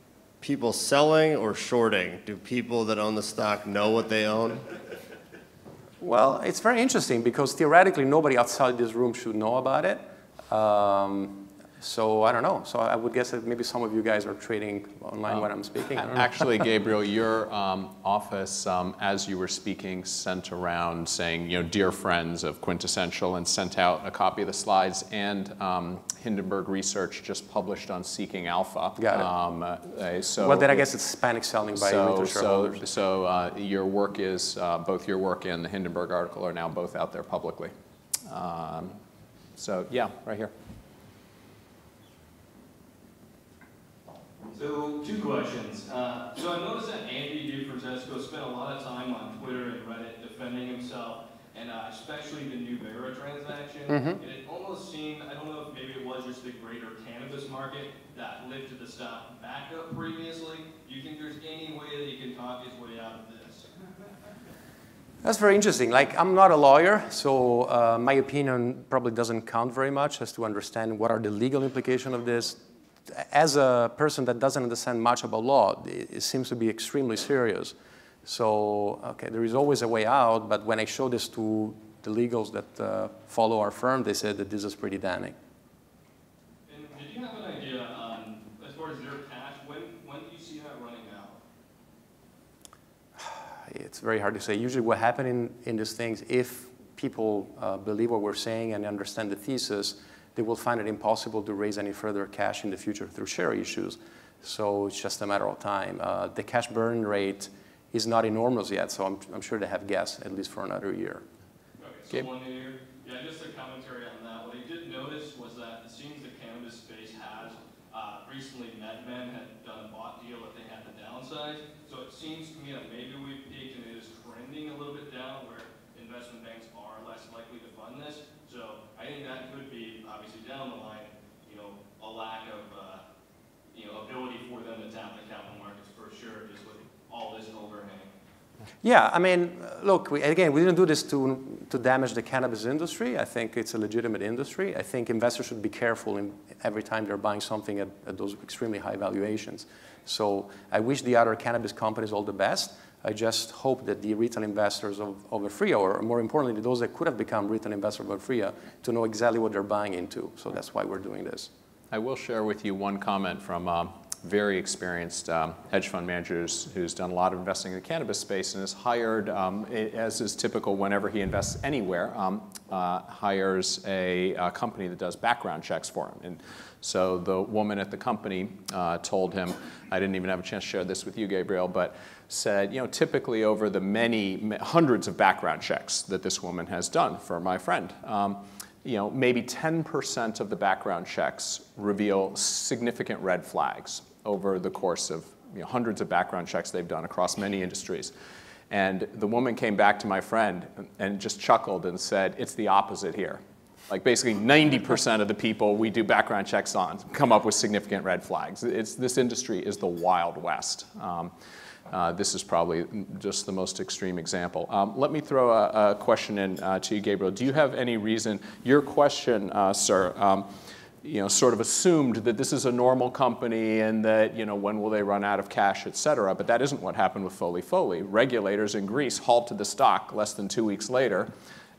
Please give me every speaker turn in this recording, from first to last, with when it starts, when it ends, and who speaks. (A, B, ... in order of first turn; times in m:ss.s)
0:00.4-0:04.7 A
0:06.0-0:16.4 B
0:15.3-0:30.8 C
0:29.0-0:29.3 B
0:30.4-0:32.8 B
0:31.8-0:37.7 C
0:38.2-0:39.0 C
0:39.6-0:40.5 C
0:44.5-1:03.7 D
0:53.9-0:54.2 B
1:05.2-1:25.4 B
1:26.7-1:31.4 D
1:33.2-1:51.2 B
1:51.8-2:13.0 D
2:13.7-2:18.1 D
2:18.8-2:41.5 B
2:41.9-3:18.1 C
3:18.7-3:31.3 C
3:31.9-3:40.5 C
3:41.0-3:51.3 C